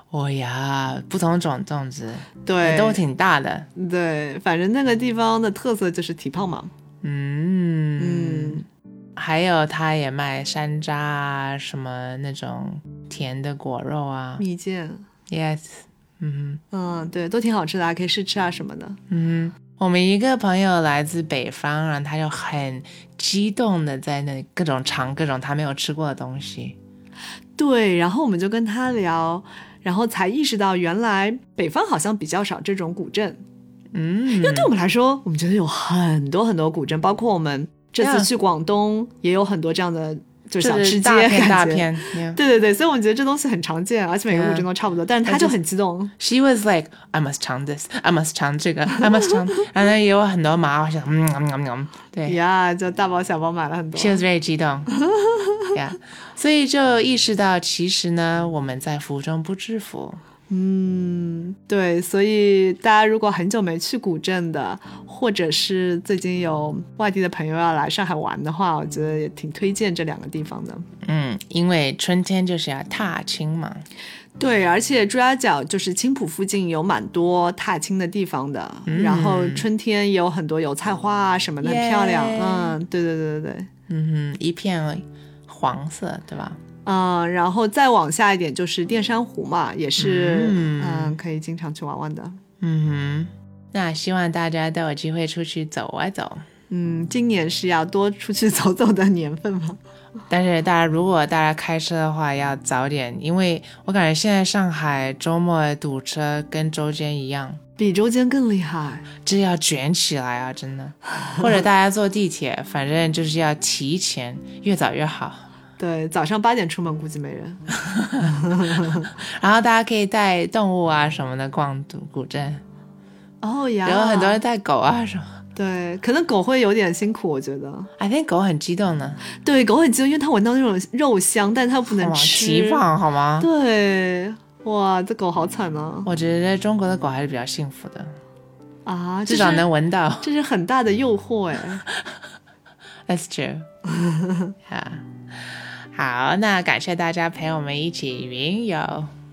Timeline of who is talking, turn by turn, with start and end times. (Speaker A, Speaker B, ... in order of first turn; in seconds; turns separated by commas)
Speaker A: 0.1-3.7, Speaker B: 2.4-3.0, Speaker B: 3.7-6.7, Speaker A: 7.0-8.6, Speaker B: 8.0-8.7, Speaker A: 9.2-14.4, Speaker B: 14.4-15.0, Speaker A: 15.3-16.6, Speaker B: 16.7-19.0, Speaker A: 19.1-26.8, Speaker B: 27.6-33.4, Speaker A: 33.9-34.7, Speaker B: 34.4-46.1, Speaker A: 38.0-38.3, Speaker A: 40.6-42.4, Speaker A: 44.3-44.7, Speaker A: 45.2-45.6, Speaker A: 46.2-52.4, Speaker B: 52.2-54.2, Speaker A: 54.0-54.9, Speaker B: 55.0-55.6, Speaker A: 55.7-60.2, Speaker B: 60.5-70.8, Speaker A: 71.0-73.8, Speaker B: 74.4-83.7, Speaker A: 78.9-79.7, Speaker A: 81.6-82.8, Speaker A: 83.9-86.6, Speaker B: 86.8-92.3, Speaker A: 90.0-91.2, Speaker A: 92.6-96.4, Speaker B: 96.7-99.8, Speaker A: 100.3-107.6, Speaker B: 107.8-109.1, Speaker A: 109.2-115.5, Speaker B: 115.8-117.6, Speaker A: 117.9-122.6, Speaker B: 118.2-119.1, Speaker B: 123.4-124.4, Speaker A: 123.8-125.4, Speaker B: 125.5-127.9, Speaker A: 128.0-129.2, Speaker B: 129.4-132.8, Speaker A: 131.9-133.5, Speaker B: 133.4-136.1, Speaker A: 136.0-138.1, Speaker B: 138.8-139.7, Speaker A: 139.2-140.3, Speaker B: 140.2-141.8, Speaker A: 143.1-143.7, Speaker B: 143.9-144.5, Speaker A: 144.7-149.1